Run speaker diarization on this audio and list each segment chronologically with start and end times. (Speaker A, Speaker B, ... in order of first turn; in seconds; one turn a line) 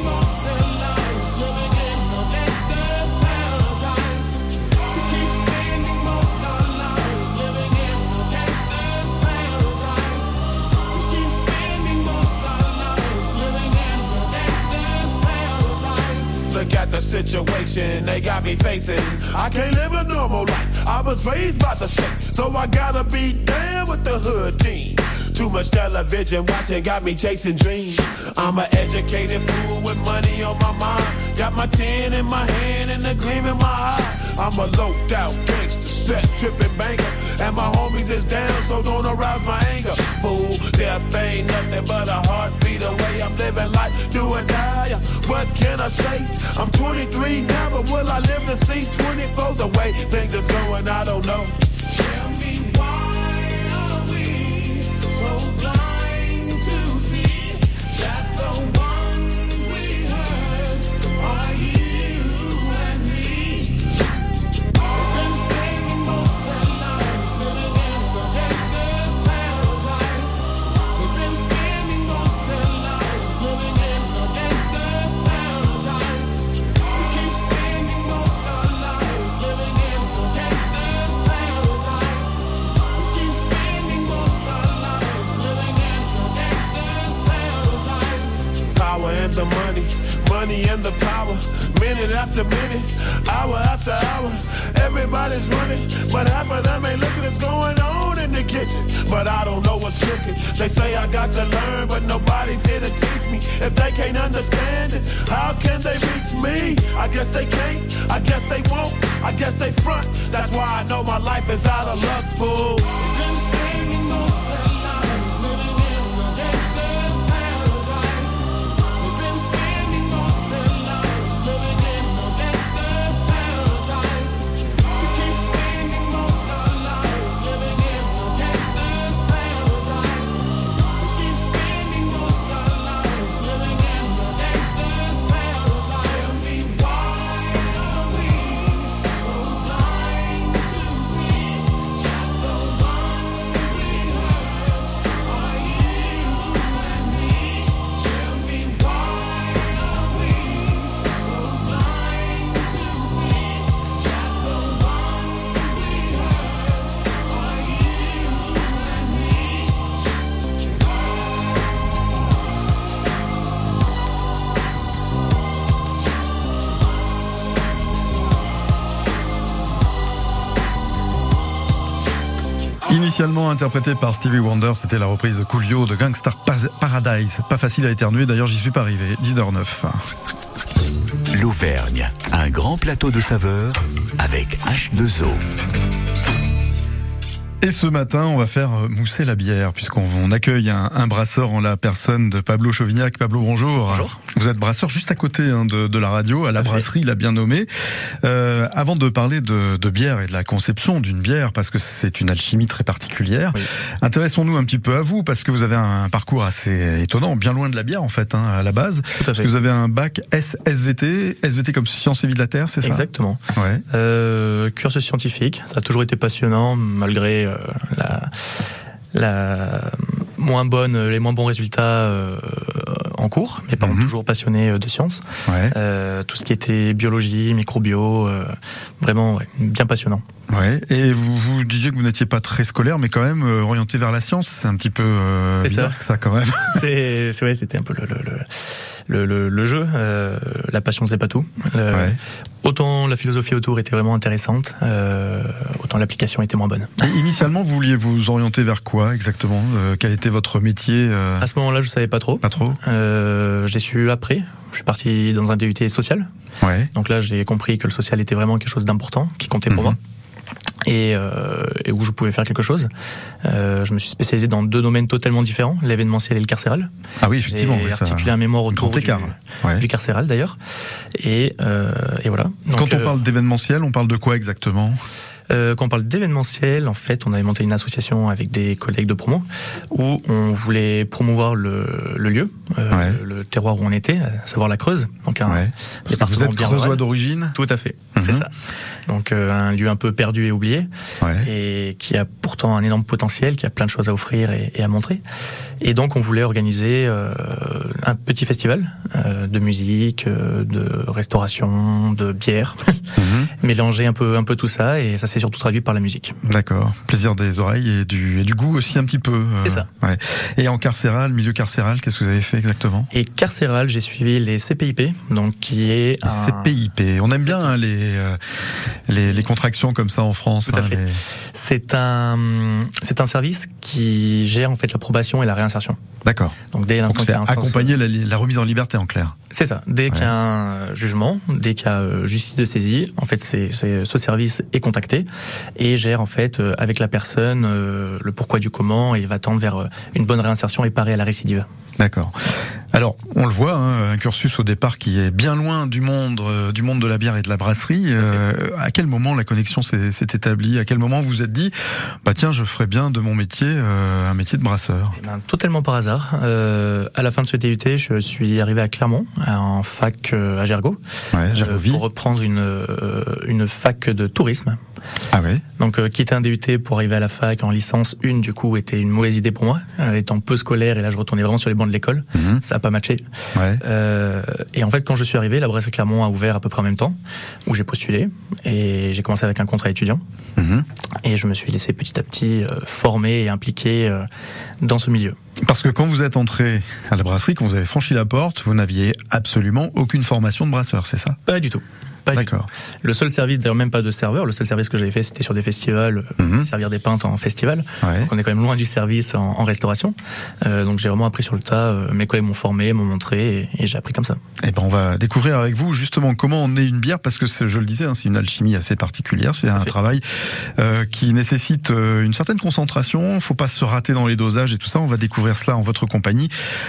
Speaker A: 16.3-51.5
Speaker A: 88.7-113.0
Speaker B: 172.9-180.0
Speaker C: 181.3-185.4
Speaker B: 187.6-197.7
Speaker D: 193.9-194.2
Speaker D: 196.6-196.9
Speaker B: 198.2-213.8
Speaker D: 209.2-209.5
Speaker D: 212.8-213.4
Speaker D: 213.9-218.3
Speaker D: 219.1-230.2
Speaker B: 223.8-224.1
Speaker B: 225.5-225.8
Speaker B: 230.5-236.8
Speaker D: 235.6-236.0
Speaker D: 236.7-238.5
Speaker D: 239.1-247.0
Speaker B: 241.9-242.2
Speaker B: 247.0-251.5
Speaker D: 251.4-256.3
Speaker B: 252.4-252.8
Speaker B: 256.6-256.9
Speaker D: 256.9-260.0
Speaker B: 259.7-260.0
Speaker D: 260.9-262.9
Speaker D: 263.4-266.9
Speaker B: 267.2-269.9
Speaker D: 267.5-270.6
Speaker D: 271.2-273.2
Speaker B: 272.7-275.0
Speaker D: 275.5-287.0
Speaker B: 282.9-283.2
Speaker B: 285.5-287.6
Speaker D: 287.6-288.5
Speaker B: 288.2-288.4
Speaker D: 289.1-290.9
Speaker B: 291.2-291.5
Speaker D: 291.4-295.2
Speaker D: 295.8-303.1
Speaker B: 303.2-303.5
Speaker D: 303.6-306.4
Speaker B: 306.4-313.1
Speaker D: 309.6-309.9
Speaker D: 313.1-316.8
Speaker B: 316.2-318.4
Speaker B: 319.1-321.2
Speaker D: 320.7-321.0
Speaker D: 321.6-326.0
Speaker B: 326.2-326.6
Speaker D: 326.7-327.9
Speaker B: 327.1-329.4
Speaker D: 329.5-341.7
Speaker B: 342.0-342.4
Speaker B: 342.9-355.2
Speaker D: 355.2-361.0
Speaker B: 361.3-362.0
Speaker D: 361.5-364.8
Speaker B: 365.3-365.6
Speaker D: 365.8-373.2
Speaker B: 372.4-372.6
Speaker B: 373.6-373.8
Speaker D: 373.8-380.2
Speaker B: 380.6-380.9
Speaker D: 381.2-384.3
Speaker D: 384.8-385.4
Speaker B: 385.6-391.4
Speaker D: 391.5-404.4
Speaker B: 392.3-392.7
Speaker B: 396.4-396.7
Speaker B: 398.0-398.3
Speaker B: 404.6-410.2
Speaker B: 410.8-416.5